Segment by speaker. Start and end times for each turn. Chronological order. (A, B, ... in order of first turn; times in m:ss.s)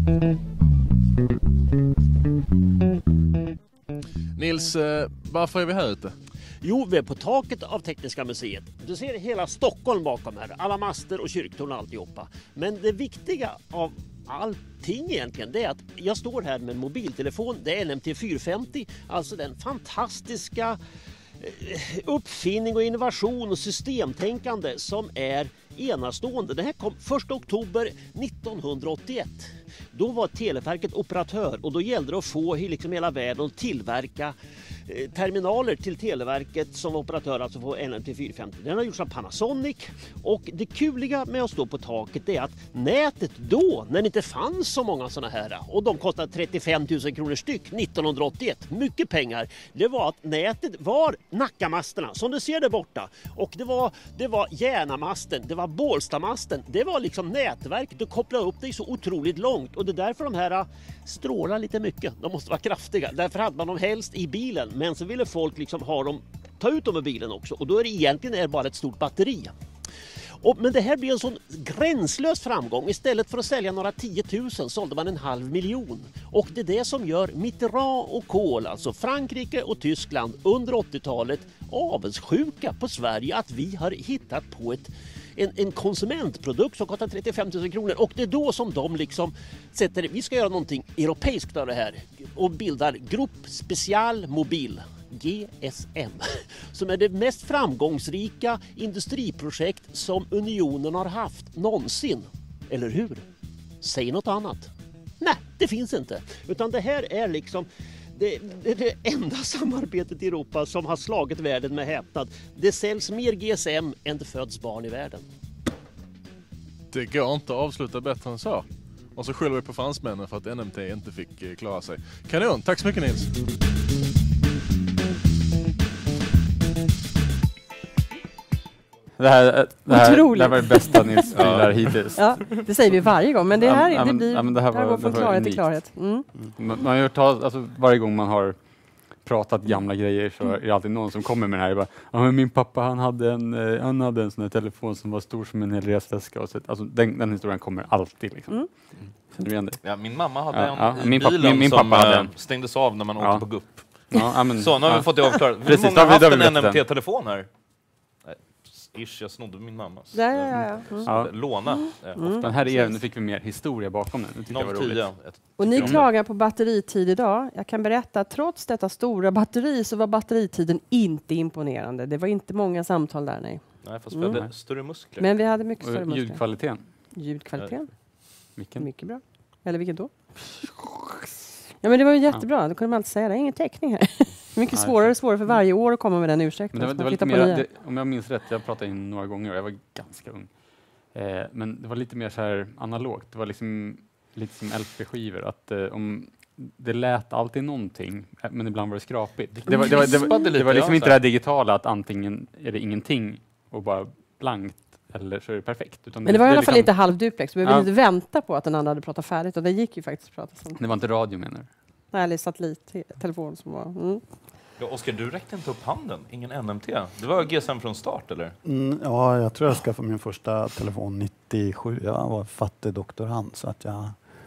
0:04.4-0:06.2 A
0:06.6-0:20.8 B
0:21.4-0:34.4 B
0:34.9-1:09.5 B
1:10.4-1:43.2 B
1:43.8-1:55.3 B
1:56.9-2:03.3 A
2:09.2-2:12.4 C
2:09.9-2:11.5 D
2:11.3-2:12.0 E
2:12.1-2:16.3 D
2:13.5-2:15.8 C
2:16.6-2:18.6 C
2:19.2-2:32.3 C
2:29.8-2:37.5 E
2:33.2-2:36.8 C
2:38.2-2:42.9 E
2:40.1-2:42.9 D
2:41.0-2:41.3 C
2:42.4-2:45.1 C
2:44.5-2:46.1 E
2:45.6-3:00.1 D
2:45.7-2:46.0 C
2:53.8-2:55.3 E
2:55.8-2:56.9 C
2:58.5-2:58.9 C
3:01.8-3:07.7 D
3:04.7-3:05.6 C
3:06.7-3:27.0 C
3:19.5-3:21.2 E
3:26.2-3:30.8 D
3:27.6-3:27.9 C
3:30.7-3:31.7 C
3:32.1-3:34.2 D
3:34.8-3:38.6 E
3:38.6-3:44.2 F